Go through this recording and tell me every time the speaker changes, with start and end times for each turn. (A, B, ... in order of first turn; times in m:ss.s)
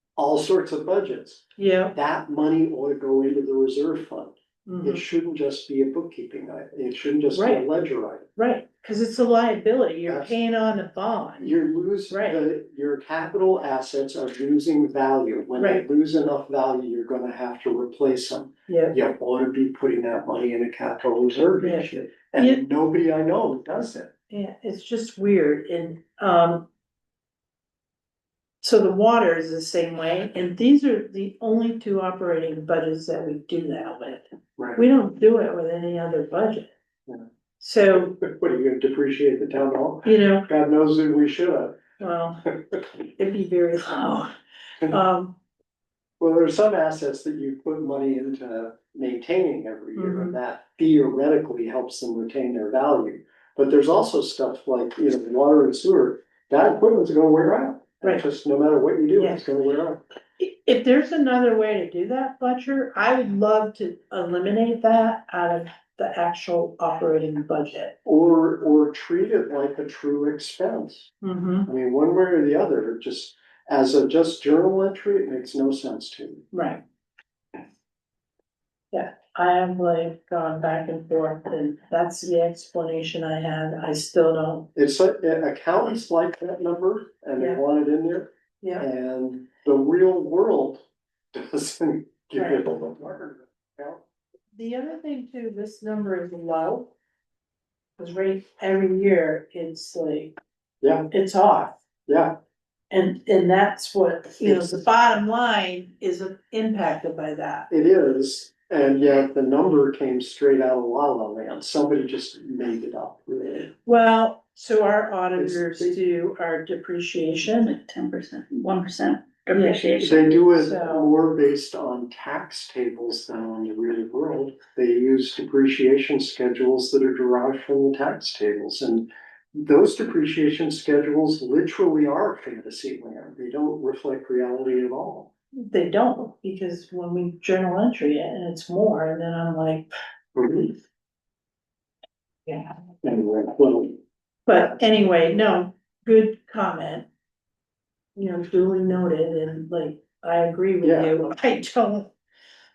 0:00.2-0:08.3 A
0:01.6-0:02.0 B
0:04.7-0:05.0 B
0:07.3-0:07.7 B
0:08.4-0:11.6 B
0:10.1-0:10.3 A
0:11.4-0:24.1 A
0:12.1-0:12.4 B
0:15.6-0:15.8 B
0:18.7-0:19.0 B
0:21.6-0:22.6 B
0:24.3-0:26.7 B
0:28.6-0:36.7 B
0:34.6-0:34.8 A
0:37.6-0:38.2 B
0:37.9-0:42.8 A
0:40.0-0:40.5 B
0:42.0-0:42.4 B
0:43.2-0:44.3 B
0:44.9-0:45.4 B
0:46.2-1:00.0 A
0:50.0-0:50.4 B
0:59.2-0:59.4 B
1:00.4-1:08.0 B
1:08.0-1:11.1 A
1:11.2-1:11.7 B
1:11.7-1:16.4 A
1:16.5-1:16.8 B
1:18.9-1:24.7 B
1:24.8-1:34.0 A
1:34.5-1:36.9 B
1:38.0-1:40.3 B
1:40.8-1:41.1 A
1:41.1-1:41.8 B
1:42.1-1:42.4 A
1:42.9-1:47.7 B
1:44.4-1:44.8 A
1:47.7-1:53.7 A
1:53.8-1:57.7 B
1:55.4-1:56.0 A
1:57.6-2:00.3 C
1:59.5-2:01.1 B
2:00.0-2:15.3 A
2:15.6-2:19.9 B
2:20.4-2:20.7 A
2:23.0-2:24.0 A
2:24.5-2:27.1 B
2:28.2-2:32.1 B
2:30.8-2:31.2 A